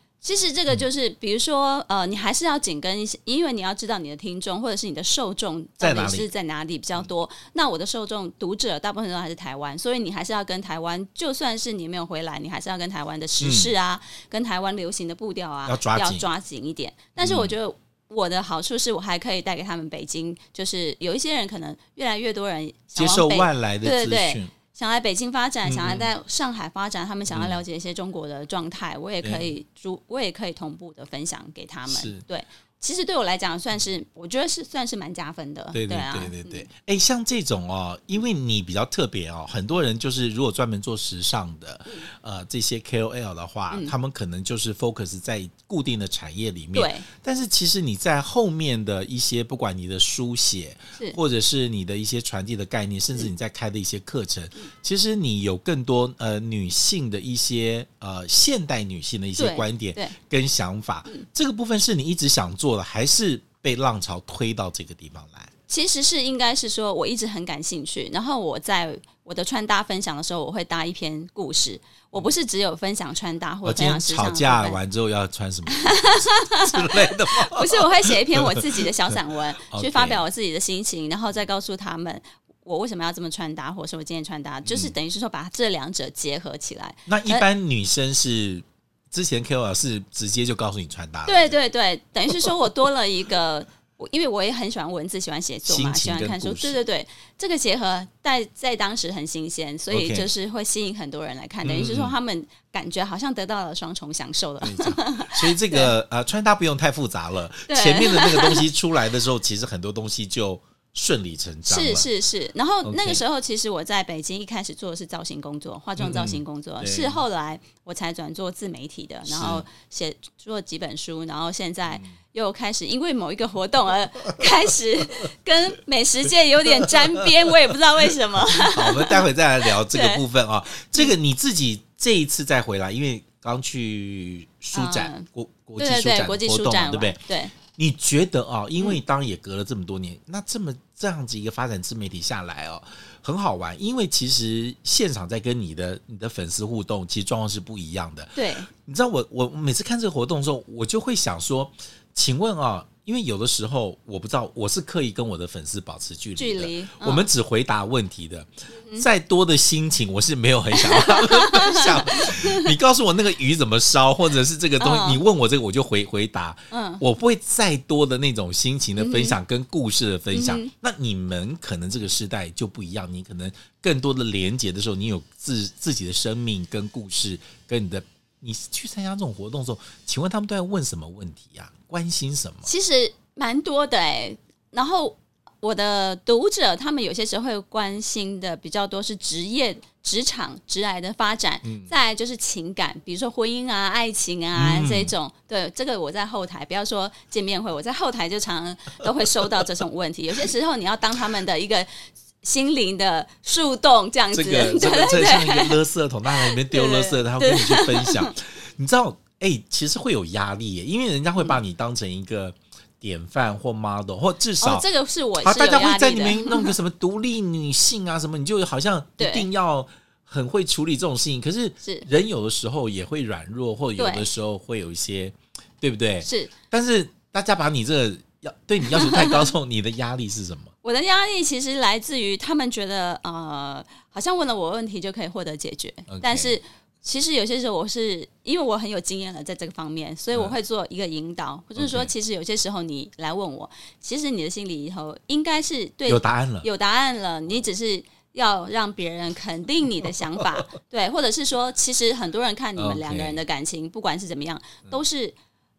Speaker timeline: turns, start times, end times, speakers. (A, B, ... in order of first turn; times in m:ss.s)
0:00.2-0:36.6 A
0:05.8-0:06.3 B
0:13.4-0:13.7 B
0:15.7-0:16.3 B
0:17.2-0:17.5 B
0:23.0-0:24.5 B
0:25.6-0:26.1 B
0:27.3-0:27.6 B
0:29.2-0:29.5 B
0:31.9-0:32.2 B
0:35.7-1:05.5 B
0:46.8-0:47.0 A
0:59.4-1:00.1 A
1:05.7-1:14.8 A
1:13.6-1:20.2 B
1:15.7-1:27.5 A
1:24.7-1:24.9 B
1:27.1-1:31.6 B
1:31.3-1:45.9 A
1:35.7-1:36.8 B
1:39.9-1:40.3 B
1:41.6-1:42.1 B
1:44.6-1:52.1 B
1:47.7-1:48.7 A
1:51.7-2:10.2 A
1:52.8-1:53.2 B
1:56.0-1:57.2 B
1:59.3-1:59.7 B
2:01.9-2:02.2 B
2:08.4-3:02.7 B
2:14.7-2:15.3 A
2:15.8-2:17.5 A
2:28.4-2:28.7 A
2:36.4-2:37.2 A
2:40.8-2:42.7 A
2:44.8-2:45.2 A
2:46.7-2:47.0 A
2:49.0-2:49.4 A
2:50.3-2:50.7 A
3:02.6-3:21.9 A
3:11.6-3:11.9 B
3:14.6-3:15.1 B
3:22.4-3:25.8 A
3:24.3-3:34.9 B
3:26.3-3:28.3 A
3:34.6-3:36.8 A
3:35.4-3:50.7 B
3:39.2-3:39.5 A
3:41.8-3:42.1 A
3:44.0-3:44.3 A
3:46.2-3:46.5 A
3:48.9-3:49.5 A
3:50.8-4:15.4 A
3:56.1-3:56.6 B
4:01.8-4:02.1 B
4:06.1-4:06.7 B
4:12.8-4:13.4 B